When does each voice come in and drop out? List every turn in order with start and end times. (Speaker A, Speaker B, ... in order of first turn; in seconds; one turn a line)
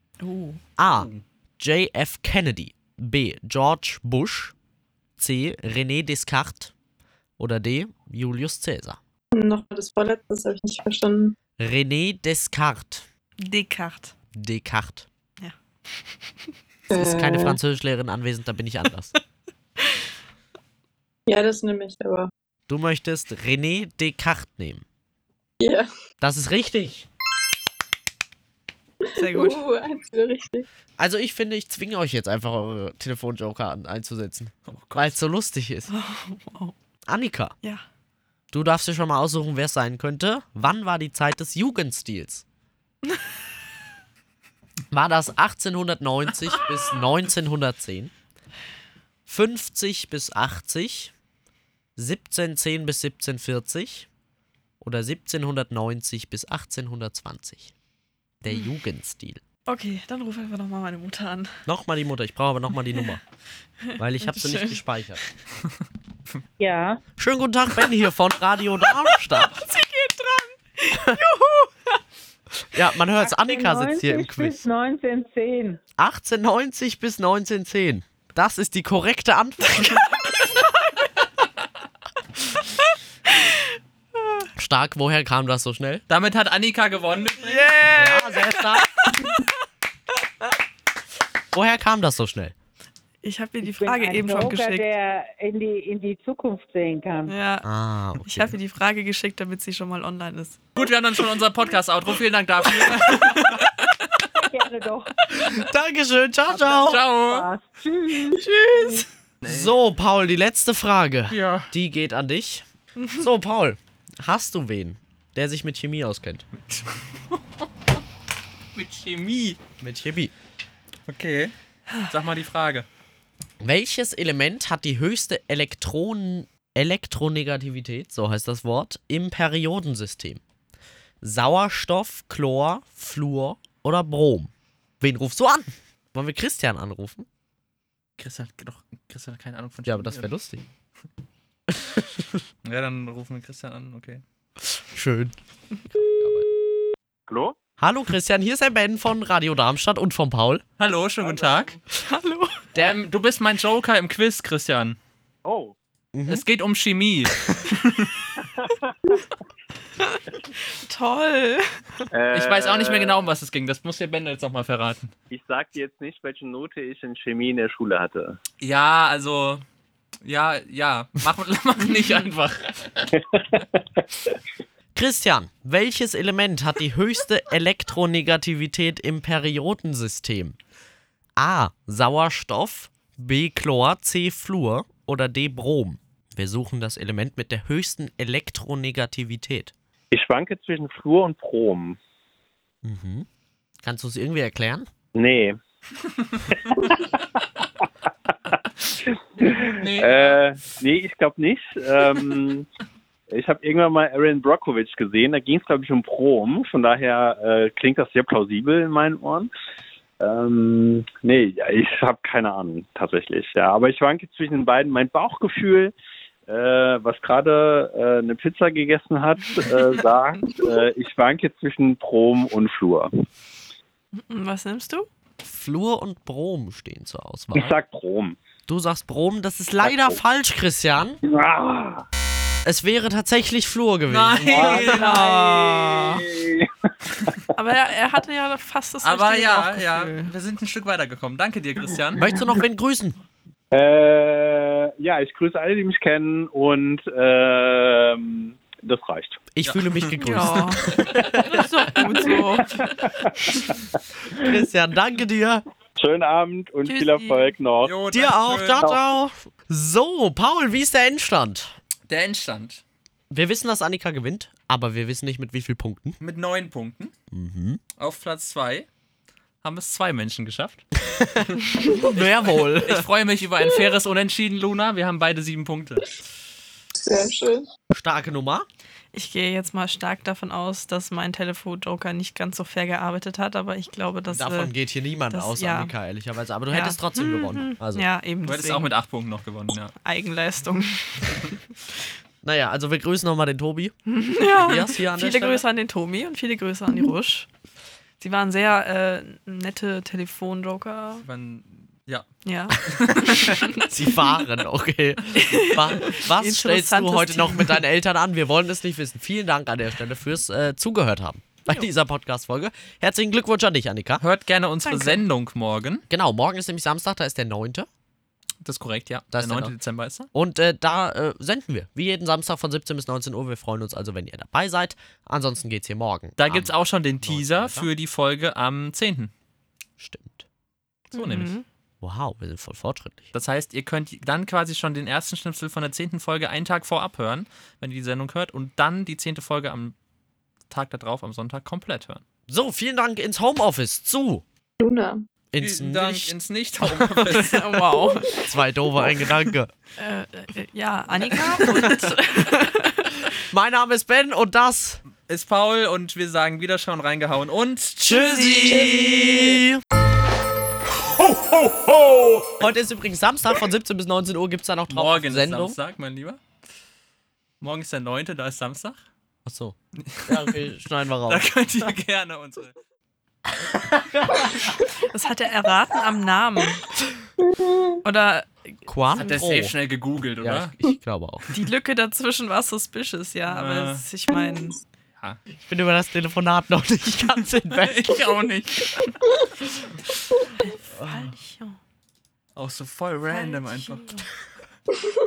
Speaker A: 0.2-0.6
Speaker B: 0.8-4.5
Speaker C: 0.8-1.2
Speaker B: 5.2-6.7
Speaker B: 7.4-9.0
Speaker D: 9.3-11.4
Speaker B: 11.6-13.1
Speaker A: 13.4-14.1
Speaker B: 14.3-15.1
Speaker D: 16.9-17.6
Speaker B: 16.9-19.1
Speaker D: 21.3-22.3
Speaker B: 22.7-24.8
Speaker D: 25.6-25.9
Speaker B: 26.2-27.1
Speaker D: 29.0-30.7
Speaker A: 29.1-29.6
Speaker B: 31.0-35.9
Speaker C: 34.7-35.1
Speaker A: 35.9-36.8
Speaker B: 37.1-37.5
Speaker B: 38.5-42.4
Speaker B: 44.9-48.1
Speaker B: 49.3-51.1
Speaker B: 52.0-54.1
Speaker B: 54.8-57.7
Speaker B: 58.4-59.4
Speaker A: 59.7-61.6
Speaker B: 61.7-63.2
Speaker A: 63.8-64.8
Speaker B: 64.0-65.2
Speaker E: 66.6-67.0
Speaker B: 67.2-69.6
Speaker A: 69.1-72.0
Speaker B: 70.9-71.2
Speaker B: 72.7-74.7
Speaker E: 73.2-75.8
Speaker B: 76.0-80.1
Speaker A: 79.8-80.9
Speaker A: 83.3-83.7
Speaker B: 84.6-86.0
Speaker C: 86.1-87.7
Speaker A: 87.4-89.5
Speaker B: 88.0-89.1
Speaker B: 91.5-92.5
Speaker A: 93.2-94.9
Speaker E: 93.6-97.3
Speaker A: 97.3-97.7
Speaker B: 97.6-98.5
Speaker A: 98.2-100.8
Speaker C: 100.8-104.1
Speaker E: 104.3-105.1
Speaker B: 105.3-107.0
Speaker E: 106.5-109.0
Speaker C: 106.8-107.5
Speaker A: 108.3-109.1
Speaker C: 109.4-109.7
Speaker B: 109.5-116.4
Speaker C: 111.3-111.7
Speaker C: 116.7-117.4
Speaker C: 118.7-119.6
Speaker B: 119.8-120.3
Speaker C: 121.1-121.5
Speaker C: 122.1-122.9
Speaker B: 123.6-130.4
Speaker B: 131.2-137.3
Speaker C: 138.2-140.3
Speaker B: 139.9-140.6
Speaker B: 141.7-142.4
Speaker C: 142.6-144.2
Speaker B: 144.7-146.5
Speaker F: 147.3-147.6
Speaker B: 147.8-150.6
Speaker C: 150.8-151.8
Speaker F: 151.2-151.8
Speaker A: 152.1-152.6
Speaker B: 152.8-153.0
Speaker C: 152.8-155.0
Speaker F: 155.4-155.7
Speaker B: 156.1-156.4
Speaker C: 156.3-158.2
Speaker F: 158.4-158.7
Speaker A: 160.0-162.1
Speaker F: 162.1-163.2
Speaker C: 162.3-165.1
Speaker F: 165.3-168.4
Speaker C: 168.6-169.6
Speaker C: 170.2-173.1
Speaker F: 173.2-174.0
Speaker B: 174.9-180.6
Speaker B: 181.4-189.7
Speaker F: 190.1-192.0
Speaker B: 192.8-193.3
Speaker B: 193.8-194.9
Speaker F: 195.2-195.6
Speaker F: 196.5-197.4
Speaker F: 199.4-202.7
Speaker C: 199.4-200.4
Speaker F: 203.3-209.5
Speaker F: 210.2-215.9
Speaker F: 216.5-223.1
Speaker A: 224.1-225.1
Speaker B: 225.4-227.7
Speaker F: 227.5-228.4
Speaker B: 228.7-231.2
Speaker F: 229.8-230.1
Speaker F: 231.2-232.0
Speaker B: 232.7-235.0
Speaker C: 234.1-235.4
Speaker A: 234.5-236.2
Speaker F: 234.8-236.7
Speaker A: 237.6-240.3
Speaker C: 239.0-242.3
Speaker B: 242.2-243.2
Speaker F: 243.7-249.4
Speaker B: 249.5-251.7
Speaker C: 249.7-250.5
Speaker A: 250.2-252.9
Speaker F: 252.8-253.7
Speaker B: 254.4-255.6
Speaker F: 256.0-258.0
Speaker A: 256.9-257.5
Speaker C: 257.8-258.9
Speaker B: 258.1-261.8
Speaker C: 262.1-262.8
Speaker B: 263.3-266.2
Speaker C: 266.2-267.1
Speaker B: 267.3-267.8
Speaker C: 268.0-268.9
Speaker C: 269.6-270.8
Speaker B: 271.0-273.1
Speaker C: 271.4-276.2
Speaker D: 277.0-277.7
Speaker B: 277.9-278.7
Speaker A: 279.1-284.7
Speaker B: 284.3-288.1
Speaker A: 285.3-285.9
Speaker A: 286.7-288.9
Speaker C: 288.4-289.9
Speaker A: 290.0-291.6
Speaker B: 292.4-295.6
Speaker A: 294.1-297.5
Speaker A: 298.2-301.2
Speaker C: 301.2-302.3
Speaker A: 302.4-303.8
Speaker C: 302.9-303.6
Speaker B: 303.7-314.2
Speaker A: 305.4-307.8
Speaker C: 314.2-316.0
Speaker A: 314.9-315.2
Speaker B: 316.1-317.9
Speaker C: 318.6-320.3
Speaker B: 319.3-319.7
Speaker B: 320.3-327.9
Speaker C: 326.4-329.3
Speaker B: 330.0-330.4
Speaker C: 331.1-331.6
Speaker A: 331.1-331.6
Speaker B: 332.0-333.3
Speaker C: 333.3-339.9
Speaker C: 340.7-342.2
Speaker B: 342.5-344.4
Speaker D: 344.8-345.2
Speaker B: 345.5-347.7
Speaker C: 345.6-347.7
Speaker A: 347.4-348.4
Speaker B: 348.3-349.7
Speaker A: 350.0-353.3
Speaker B: 353.5-355.0
Speaker C: 355.2-359.4
Speaker B: 358.0-359.8
Speaker B: 362.5-365.8
Speaker C: 364.9-366.4
Speaker C: 367.6-369.0
Speaker B: 369.4-369.8
Speaker C: 370.0-370.6
Speaker B: 370.3-371.5
Speaker C: 371.3-372.7
Speaker B: 374.1-374.4
Speaker A: 375.1-376.8
Speaker D: 377.5-377.9
Speaker A: 378.0-379.4
Speaker B: 378.9-379.8
Speaker C: 379.1-380.7
Speaker B: 380.4-381.4
Speaker A: 381.5-384.8
Speaker C: 383.5-384.0
Speaker B: 385.6-388.3
Speaker C: 387.8-389.2
Speaker A: 390.6-391.8
Speaker C: 392.6-394.1
Speaker A: 393.3-394.2